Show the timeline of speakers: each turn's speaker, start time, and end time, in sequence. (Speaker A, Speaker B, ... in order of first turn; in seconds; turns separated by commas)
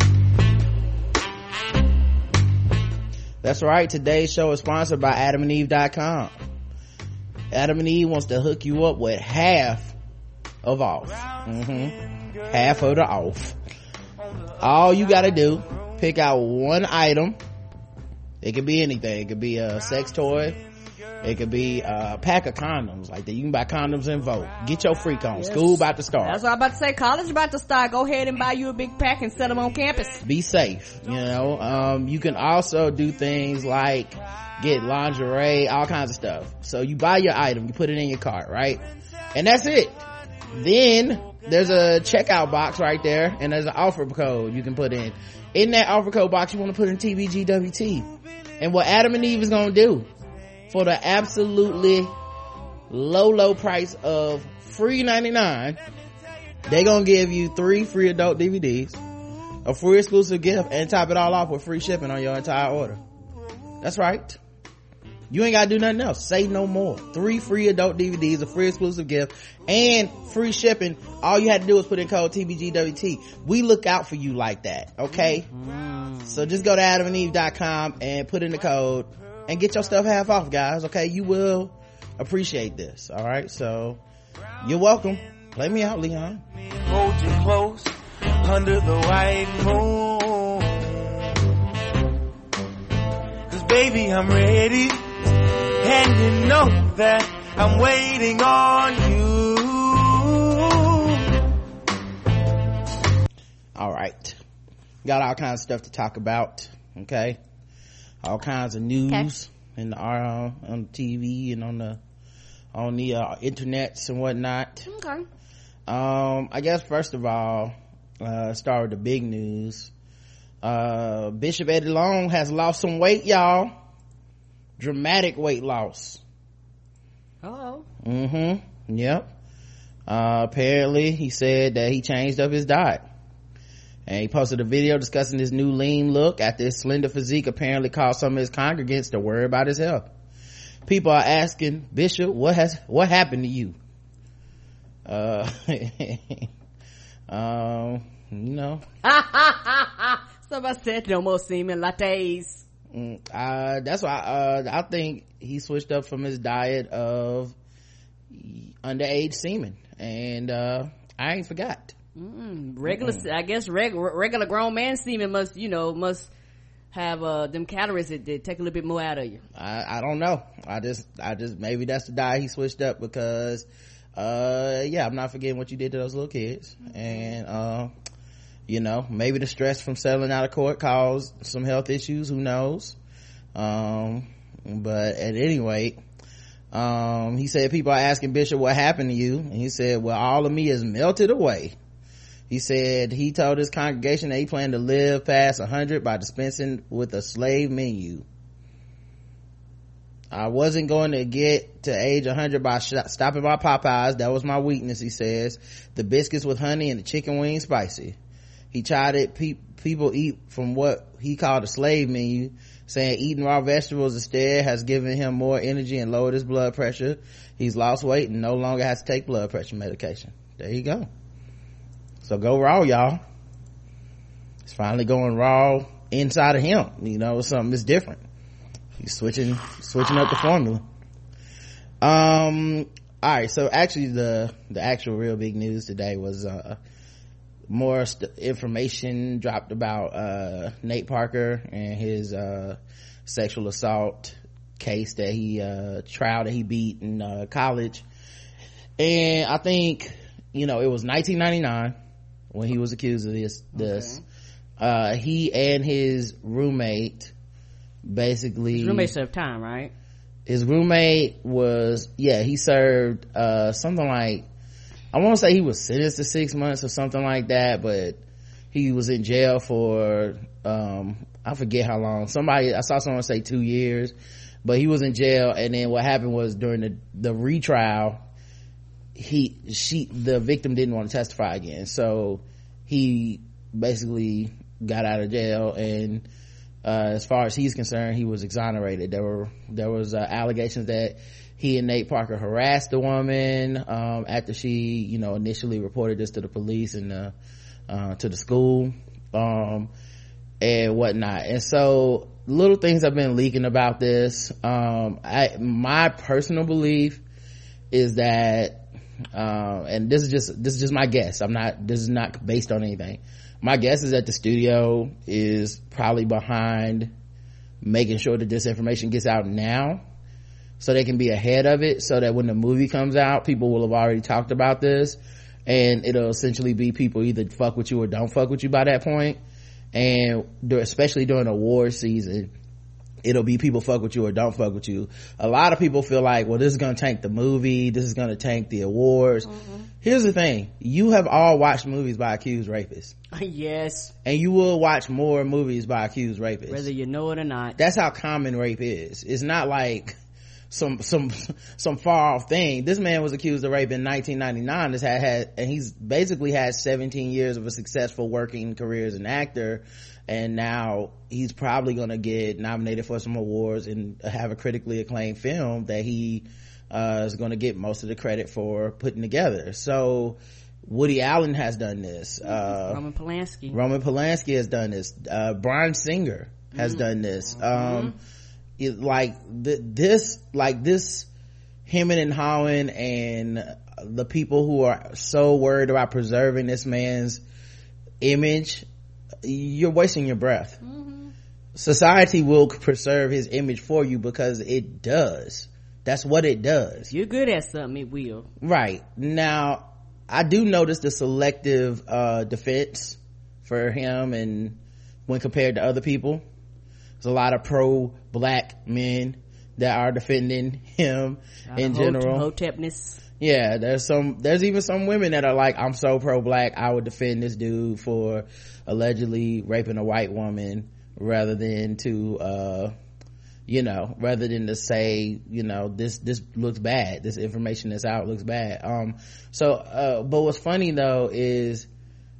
Speaker A: 3.4-6.3, Speaker A: 7.5-9.9, Speaker A: 10.6-13.6, Speaker A: 14.6-17.4, Speaker A: 18.4-20.6, Speaker A: 21.2-26.4, Speaker B: 25.3-30.2, Speaker A: 30.2-38.8, Speaker A: 39.3-40.0, Speaker A: 40.5-48.1, Speaker A: 48.6-50.1, Speaker A: 50.7-52.1, Speaker A: 52.9-55.8, Speaker A: 56.7-59.0, Speaker A: 59.6-63.0, Speaker A: 63.8-64.4, Speaker A: 65.3-75.5, Speaker B: 75.1-76.5, Speaker A: 76.2-84.0, Speaker A: 84.6-86.4, Speaker C: 86.7-87.9, Speaker C: 88.5-90.5, Speaker C: 93.5-94.9, Speaker C: 95.9-99.8, Speaker A: 103.7-104.4, Speaker A: 105.0-107.4, Speaker A: 108.2-112.0, Speaker A: 112.7-114.9, Speaker B: 114.9-115.2, Speaker A: 115.9-119.9, Speaker A: 120.6-123.8, Speaker A: 124.8-126.2, Speaker B: 127.4-127.8, Speaker A: 128.0-129.3, Speaker A: 130.1-133.0, Speaker A: 134.1-140.1, Speaker A: 140.8-143.8, Speaker A: 145.1-146.5, Speaker A: 147.3-148.8, Speaker B: 149.0-152.6, Speaker A: 152.9-157.6, Speaker A: 158.3-161.9, Speaker B: 162.2-166.3, Speaker A: 162.8-163.2, Speaker B: 166.9-169.4, Speaker A: 169.5-177.9, Speaker B: 177.0-177.3, Speaker A: 178.7-183.0, Speaker A: 183.5-186.0, Speaker A: 186.7-191.7, Speaker A: 192.5-198.2, Speaker A: 200.3-208.2, Speaker A: 208.7-221.1, Speaker A: 222.2-223.2, Speaker A: 224.7-228.2, Speaker A: 229.0-230.8, Speaker A: 232.0-236.8, Speaker A: 237.7-248.0, Speaker A: 249.0-251.9, Speaker A: 252.5-254.2, Speaker B: 253.7-254.2, Speaker A: 254.8-257.3, Speaker A: 258.1-259.1, Speaker B: 258.7-259.9, Speaker A: 260.5-264.4, Speaker A: 265.1-268.2, Speaker A: 268.7-278.2, Speaker A: 279.1-286.2, Speaker A: 286.8-297.3, Speaker A: 297.9-299.9, Speaker A: 300.6-307.2, Speaker A: 307.9-317.1, Speaker A: 317.8-320.0, Speaker A: 320.8-329.4, Speaker A: 329.9-332.5, Speaker A: 333.2-339.5, Speaker B: 339.5-339.9, Speaker A: 340.0-343.1, Speaker B: 343.3-344.1, Speaker A: 344.2-346.9, Speaker B: 346.7-347.8, Speaker A: 347.8-350.1, Speaker A: 350.7-373.0, Speaker B: 372.4-373.8, Speaker A: 373.7-378.1, Speaker B: 376.7-378.1, Speaker A: 378.8-381.3, Speaker A: 381.9-387.4, Speaker A: 388.2-388.9, Speaker A: 389.4-390.8, Speaker B: 390.8-391.3, Speaker A: 391.8-397.1, Speaker B: 397.1-398.5, Speaker A: 398.6-406.4, Speaker A: 407.2-412.5, Speaker B: 411.7-413.2, Speaker A: 413.4-422.9, Speaker A: 423.7-431.9